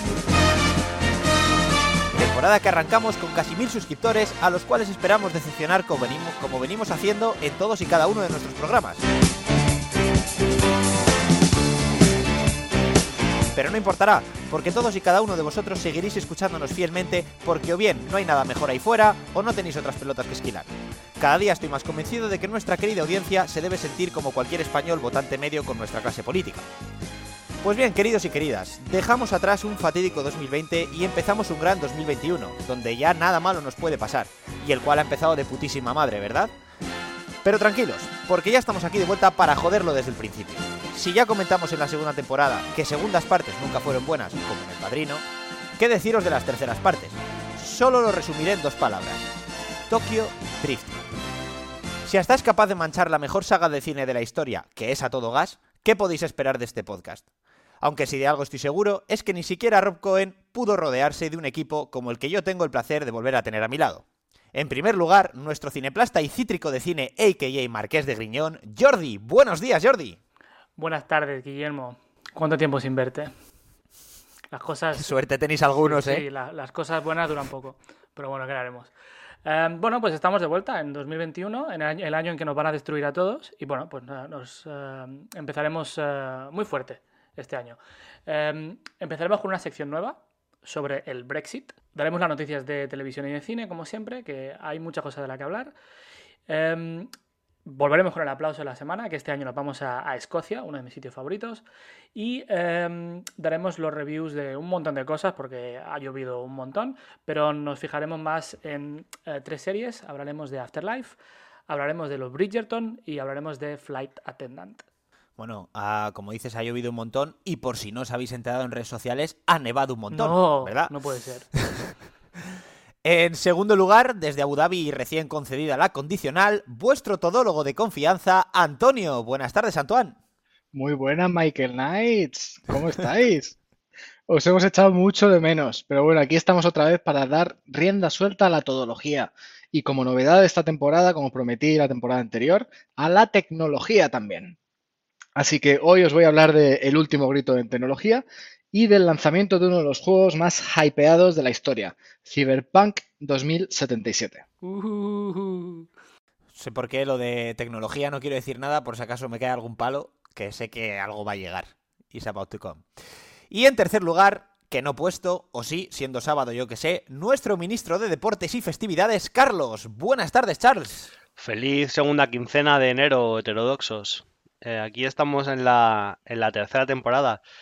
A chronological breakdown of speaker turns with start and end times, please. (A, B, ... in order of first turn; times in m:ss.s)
0:02.1-0:09.0 A
0:13.5-0:26.7 A
0:27.6-0:36.5 A
0:37.4-0:45.2 A
0:45.8-0:49.2 A
0:49.9-0:51.0 A
0:52.0-0:57.2 A
0:57.8-1:10.2 A
1:10.8-1:13.3 B
1:14.5-1:15.1 B
1:15.0-1:16.2 A
1:15.8-1:18.9 B
1:19.4-1:35.7 B
1:36.5-1:37.1 B
1:37.6-1:41.6 B
1:42.1-1:51.2 B
1:51.7-1:54.8 B
1:55.4-2:00.9 A
2:00.1-2:01.5 B
2:01.6-2:01.9 A
2:03.0-2:10.2 A
2:10.7-2:13.6 C
2:14.3-2:24.6 C
2:25.4-2:34.4 C
2:34.6-2:35.9 B
2:36.5-2:42.8 A
2:43.5-2:51.1 A
2:51.4-2:57.4 D